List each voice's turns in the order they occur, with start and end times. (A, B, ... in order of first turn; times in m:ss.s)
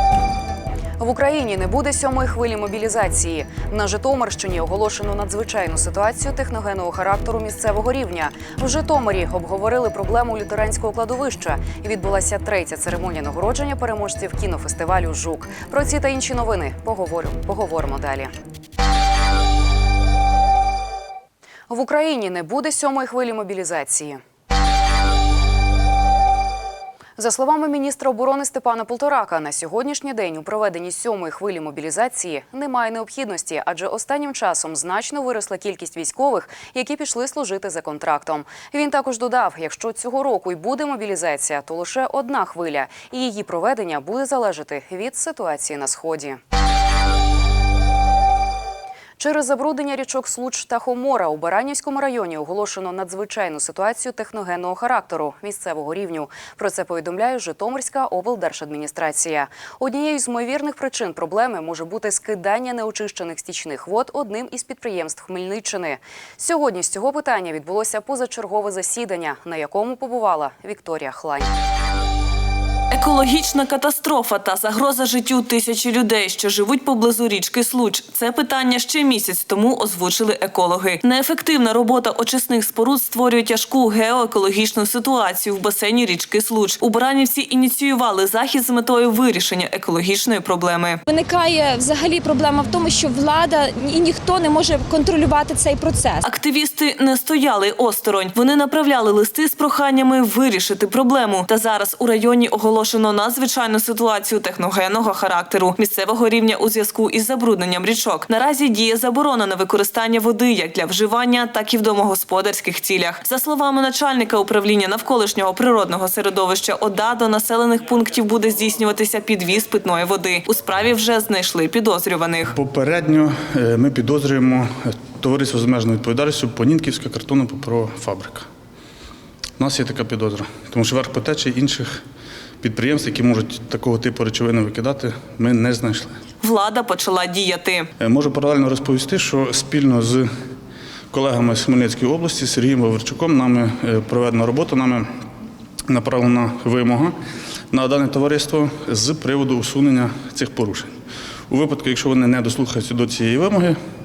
0:01.0-0:18.3 A
0:21.7-0:24.2 A
0:27.2-0:46.4 A
0:49.2-1:11.5 A
1:12.9-1:31.0 B
1:31.1-1:36.2 C
1:36.2-2:02.5 B
2:02.6-2:04.7 D
2:05.2-2:08.4 D
2:09.6-2:11.9 D
2:12.6-2:16.1 D
2:16.4-2:17.9 B
2:18.0-2:20.2 D
2:21.1-2:25.0 D
2:25.9-2:27.1 D
2:27.8-2:30.9 D
2:31.5-2:33.7 D